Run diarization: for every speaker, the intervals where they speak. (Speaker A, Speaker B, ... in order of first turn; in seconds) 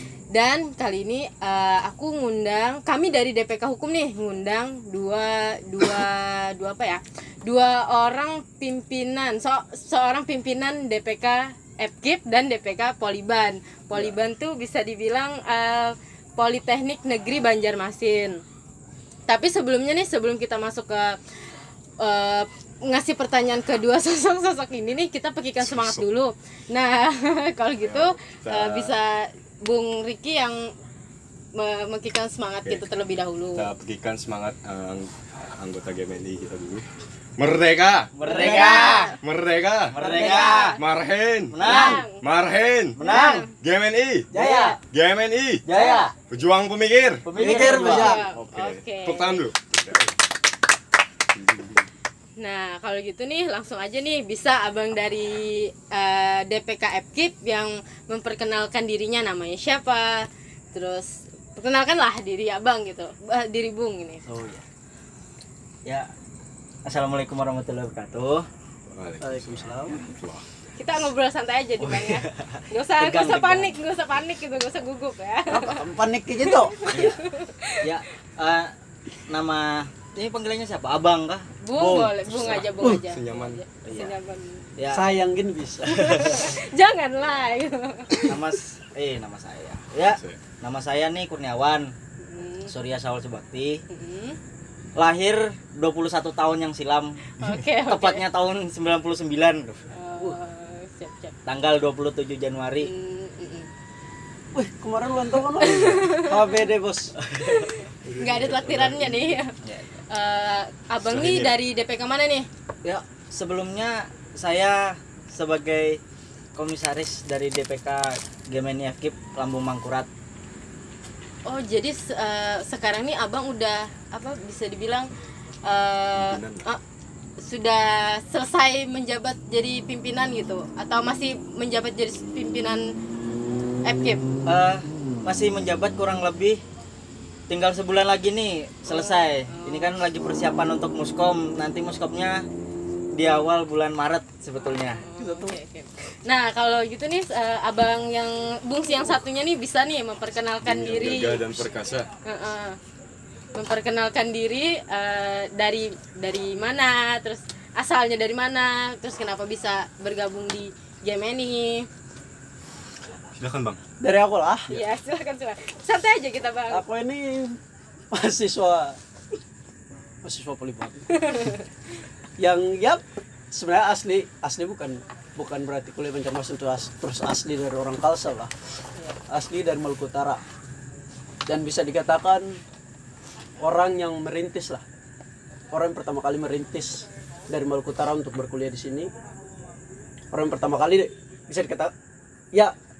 Speaker A: 0.3-18.4, 19.3-21.2, 22.0-30.7, 31.5-33.7, 38.3-39.2, 40.1-40.8, 41.6-42.2, 43.0-43.5, 47.4-49.4, 52.4-64.2, 70.8-75.8, 76.5-77.8, 81.6-84.7, 85.9-88.2, 92.2-92.7, 93.9-94.4, 97.4-98.2, 99.9-101.3, 102.8-103.7, 105.6-106.5, 107.4-109.6, 110.1-112.5, 121.5-125.1, 125.7-126.8, 127.4-132.9, 133.8-134.2, 138.9-139.9, 144.7-151.7, 152.2-152.8, 153.6-161.9, 164.7-166.8, 171.1-171.7
Speaker B: 25.6-26.0, 27.8-28.9, 33.6-36.9, 37.4-38.1, 39.2-40.0, 40.7-43.0, 43.5-44.3, 44.8-45.6, 46.3-50.1, 51.3-51.9, 68.9-70.5, 82.2-84.1, 90.0-90.4, 108.0-109.3, 111.0-111.5, 126.1-126.7, 150.6-152.1, 163.3-163.8
Speaker C: 38.2-39.2, 39.9-40.8, 41.5-42.0, 43.0-43.5, 44.3-44.8, 45.7-46.1, 47.2-48.2, 64.3-64.6, 66.8-68.5, 71.8-73.8, 76.9-77.2, 77.8-78.7, 79.3-82.2, 84.8-85.1, 88.2-91.9, 92.7-93.8, 95.0-99.8, 101.5-102.9, 107.3-107.7, 109.6-110.0, 112.8-116.0, 116.5-120.1, 134.5-136.6, 137.5-142.5, 143.1-145.0
Speaker D: 38.2-38.8, 40.0-40.6, 43.1-43.4, 44.3-44.8, 47.4-48.3, 69.2-70.0, 75.5-76.8, 84.9-86.5, 104.5-107.1, 145.2-145.6, 164.0-164.8, 166.7-167.6, 168.1-169.0, 170.2-171.1, 172.4-178.5, 179.3-180.4, 181.5-182.6, 183.6-184.8, 185.7-189.1, 190.3-191.9